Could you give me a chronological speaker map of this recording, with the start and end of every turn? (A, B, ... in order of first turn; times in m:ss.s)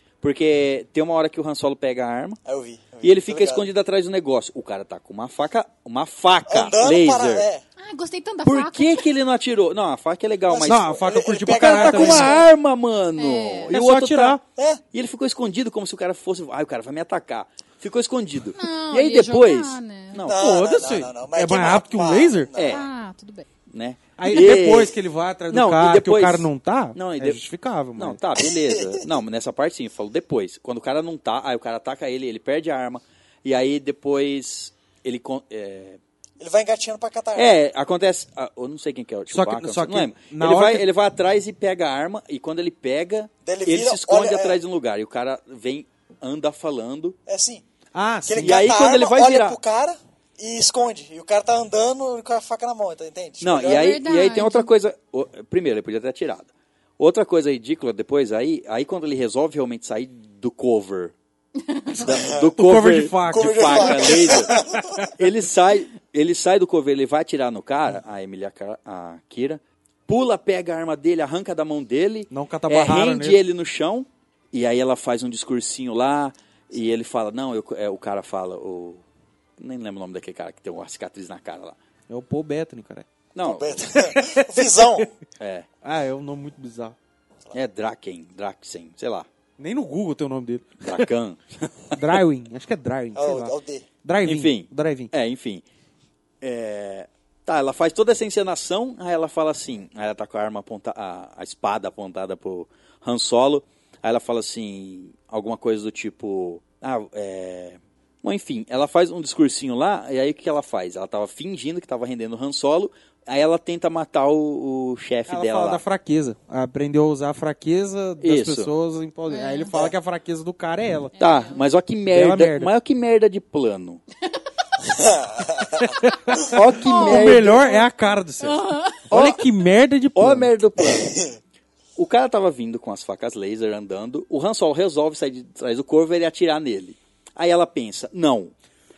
0:00.2-0:02.4 A
0:02.4-0:03.7 B
0:03.0-0:07.5 A
0:06.5-0:07.6 B
0:07.8-0:09.1 C
0:08.4-0:11.0 A
0:10.5-0:12.4 B
0:10.6-0:12.4 D
0:11.5-0:14.4 A
0:13.2-0:13.7 C
0:13.7-0:14.4 D
0:14.6-0:14.8 B
0:14.9-0:20.4 A
0:18.5-0:20.2 C
0:20.2-0:22.9 B
0:20.2-0:22.5 D
0:22.5-0:22.8 A
0:22.6-0:23.5 C
0:23.7-0:25.0 A
0:24.2-0:28.2 D
0:25.5-0:27.4 A
0:28.0-0:36.0 A
0:28.4-0:29.0 B
0:36.4-0:37.5 B
0:37.3-0:47.2 A
0:39.3-0:40.9 D
0:43.4-0:44.6 B
0:47.2-0:47.6 B
0:47.9-0:48.7 D
0:48.2-0:54.0 B
0:48.4-0:49.6 A
0:53.4-1:01.1 A
0:53.6-0:54.7 C
1:01.6-1:02.2 C
1:01.9-1:19.0 A
1:02.1-1:02.5 B
1:02.6-1:05.1 D
1:03.3-1:05.1 B
1:12.3-1:13.4 D
1:19.6-1:21.8 A
1:22.1-1:23.0 D
1:23.3-1:23.8 A
1:23.4-1:25.1 B
1:23.9-1:25.0 D
1:25.4-1:25.7 A
1:25.8-1:27.0 D
1:27.5-1:29.3 A
1:29.6-1:31.1 D
1:30.8-1:32.2 A
1:31.9-1:35.1 D
1:33.1-1:33.9 B
1:34.2-1:35.6 A
1:36.4-1:55.8 A
1:55.3-2:01.1 D
1:58.2-1:58.7 A
1:59.3-1:59.7 C
2:01.1-2:01.6 C
2:01.2-2:04.0 A
2:02.1-2:02.7 D
2:04.8-2:05.9 B
2:05.8-2:10.5 D
2:06.4-2:07.8 A
2:06.8-2:07.8 C
2:08.4-2:09.1 C
2:09.1-2:09.4 A
2:10.1-2:11.2 A
2:10.8-2:11.3 B
2:12.0-2:18.5 A